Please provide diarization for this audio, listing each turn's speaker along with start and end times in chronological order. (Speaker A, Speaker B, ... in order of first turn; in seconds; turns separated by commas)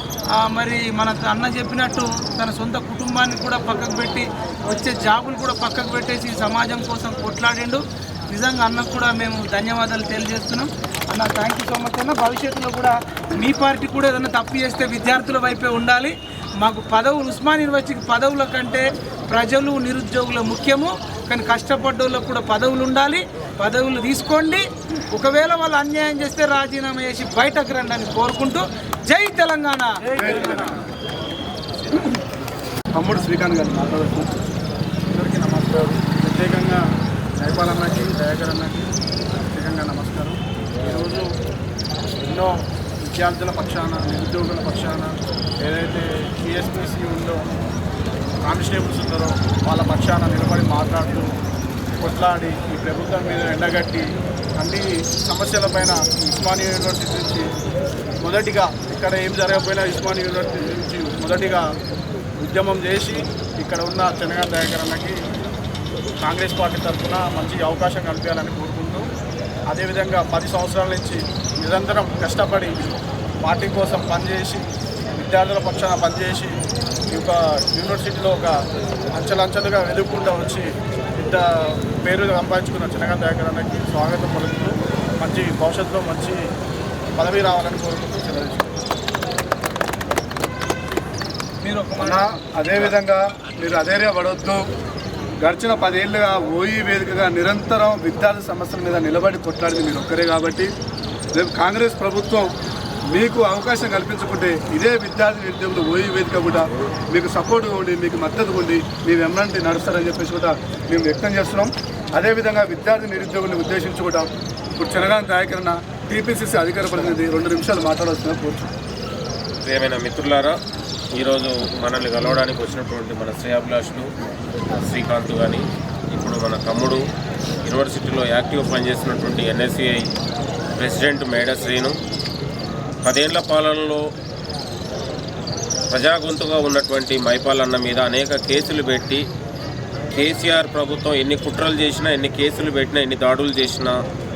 Speaker A: 0.3-30.0, Speaker B: 30.1-30.7, Speaker B: 33.0-34.4, Speaker C: 35.1-36.8, Speaker C: 37.4-38.9, Speaker C: 39.5-41.3, Speaker C: 42.2-47.5, Speaker C: 48.4-51.3, Speaker C: 52.0-57.5, Speaker C: 58.2-61.6, Speaker C: 62.4-65.2, Speaker C: 66.2-69.1, Speaker C: 69.7-74.6, Speaker C: 75.2-76.6, Speaker C: 77.1-86.5, Speaker C: 87.2-88.7, Speaker A: 91.6-92.2, Speaker B: 92.0-94.6, Speaker B: 95.4-100.7, Speaker B: 101.3-102.5, Speaker B: 103.1-118.7, Speaker D: 119.6-120.5, Speaker D: 121.1-124.1, Speaker D: 124.7-127.0, Speaker D: 127.6-130.1, Speaker D: 130.8-131.9, Speaker D: 133.0-134.0, Speaker D: 135.9-139.2, Speaker D: 140.1-144.0